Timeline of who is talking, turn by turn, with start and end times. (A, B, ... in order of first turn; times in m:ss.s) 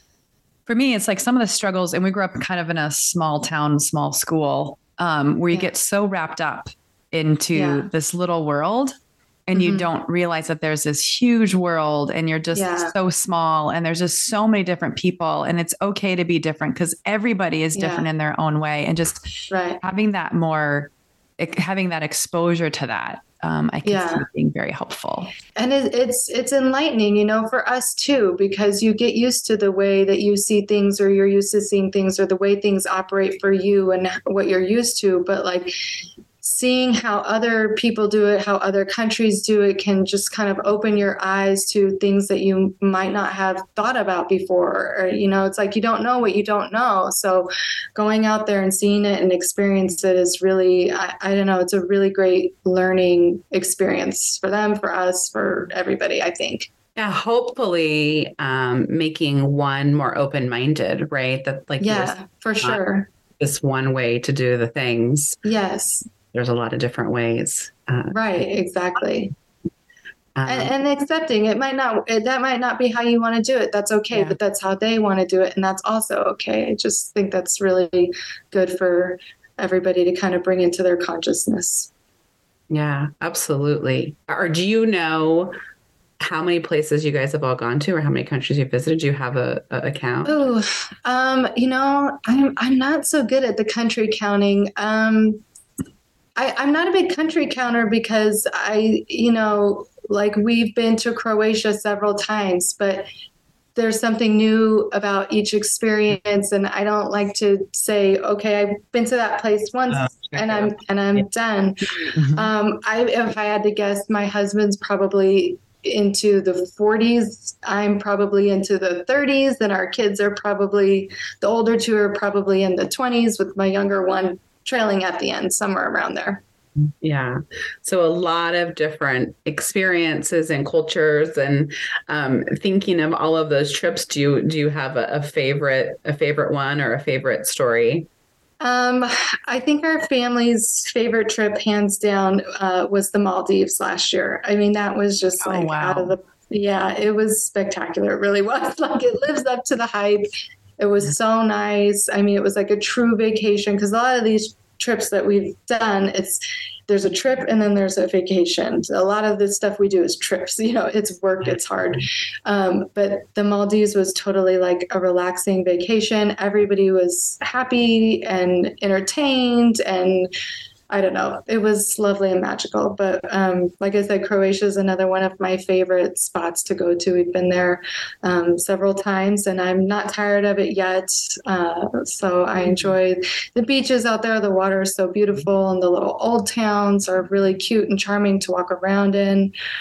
0:00.7-0:08.9 A
0:07.5-0:07.9 B
0:09.5-0:19.3 A
0:09.5-0:09.9 B
0:12.5-0:12.9 B
0:17.7-0:18.1 B
0:19.5-0:19.8 B
0:19.8-0:25.3 A
0:23.8-0:24.2 B
0:25.6-0:35.7 B
0:36.4-0:56.7 B
0:57.0-1:02.8 C
1:01.8-1:03.1 B
1:03.4-1:05.4 C
1:05.4-1:06.0 B
1:06.3-1:08.2 C
1:08.1-1:09.3 B
1:10.3-1:10.7 C
1:10.4-1:21.9 B
1:22.7-1:25.5 C
1:26.2-1:30.4 C
1:30.2-1:35.4 B
1:36.4-1:43.1 B
1:43.8-2:06.4 B
1:49.9-1:51.2 C
1:52.1-1:52.5 A
2:06.8-2:18.1 C
2:18.6-2:30.3 B
2:25.4-2:26.1 A
2:30.8-2:50.3 B
2:50.9-3:09.5 B